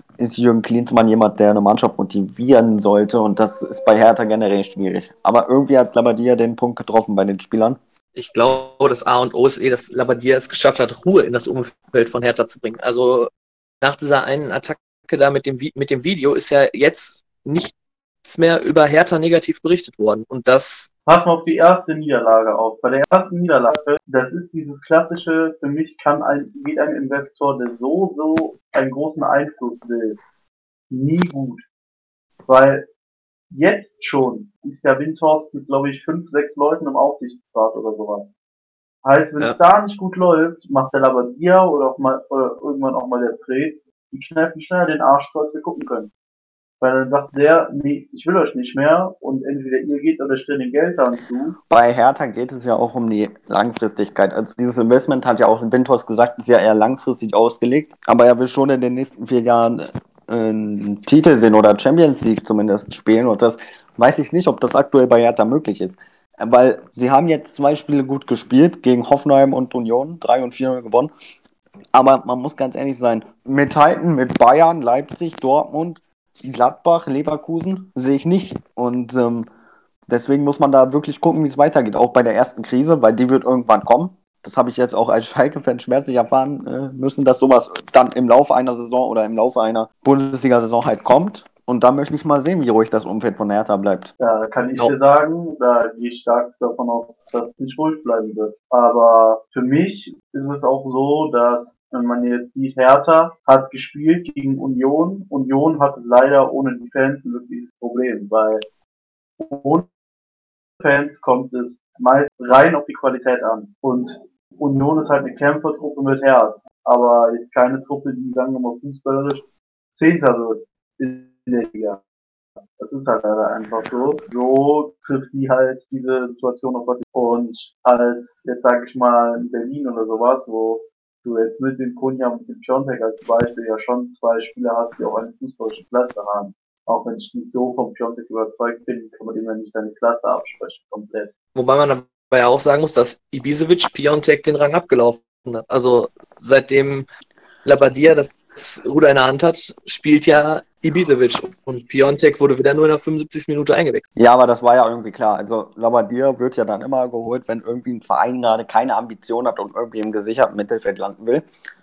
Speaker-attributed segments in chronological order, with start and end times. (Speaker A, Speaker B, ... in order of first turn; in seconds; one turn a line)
Speaker A: 0.2-7.8
Speaker B: 8.2-20.9
Speaker C: 21.1-30.2
Speaker C: 30.9-31.6
Speaker C: 32.5-32.9
Speaker C: 33.5-38.3
Speaker C: 39.0-46.1
Speaker C: 46.8-51.6
Speaker A: 51.7-71.1
Speaker A: 71.9-79.5
Speaker A: 80.1-94.1
Speaker C: 94.2-108.7
Speaker C: 109.4-109.9
Speaker C: 110.8-119.5
Speaker C: 120.0-122.0
Speaker C: 122.8-141.3
Speaker B: 141.6-147.1
Speaker B: 147.7-154.1
Speaker A: 154.2-161.5